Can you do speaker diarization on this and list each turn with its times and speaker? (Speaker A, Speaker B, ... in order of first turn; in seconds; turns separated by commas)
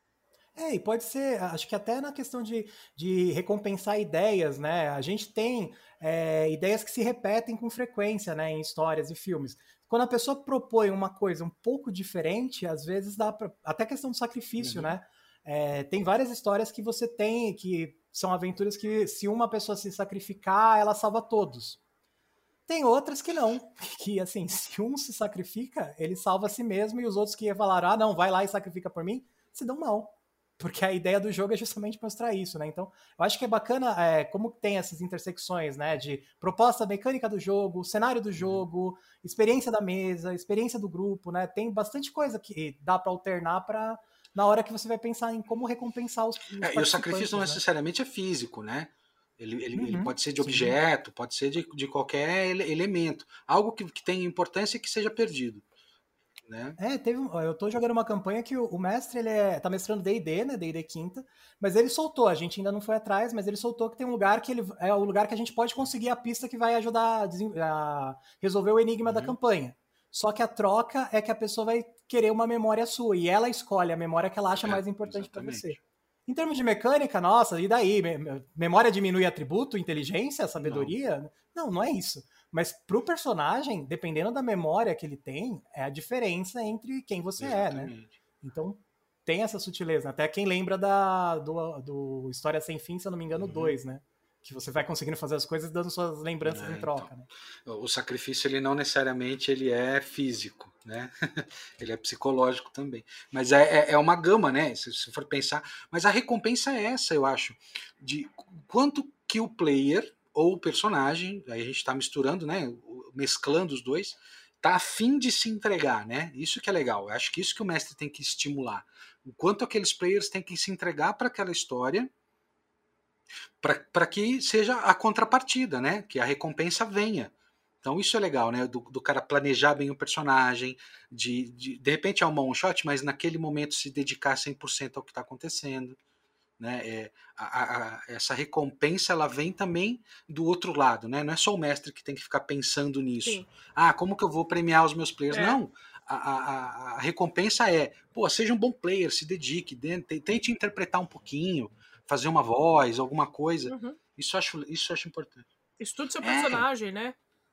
Speaker A: 0.6-21.8, Speaker B: 14.6-14.9, Speaker A: 22.7-47.6, Speaker B: 38.4-38.6, Speaker B: 46.6-55.6, Speaker A: 49.8-50.8, Speaker B: 56.5-56.8, Speaker A: 56.8-97.3, Speaker B: 69.0-69.3, Speaker B: 74.5-75.8, Speaker B: 80.6-80.9, Speaker B: 87.4-88.1, Speaker B: 93.3-93.8, Speaker B: 96.4-97.1, Speaker B: 97.7-122.1, Speaker B: 123.6-127.3, Speaker B: 127.8-136.0, Speaker B: 136.6-155.5, Speaker C: 143.2-143.5, Speaker C: 145.3-145.6, Speaker C: 153.7-154.0, Speaker C: 155.8-157.2, Speaker B: 156.2-156.6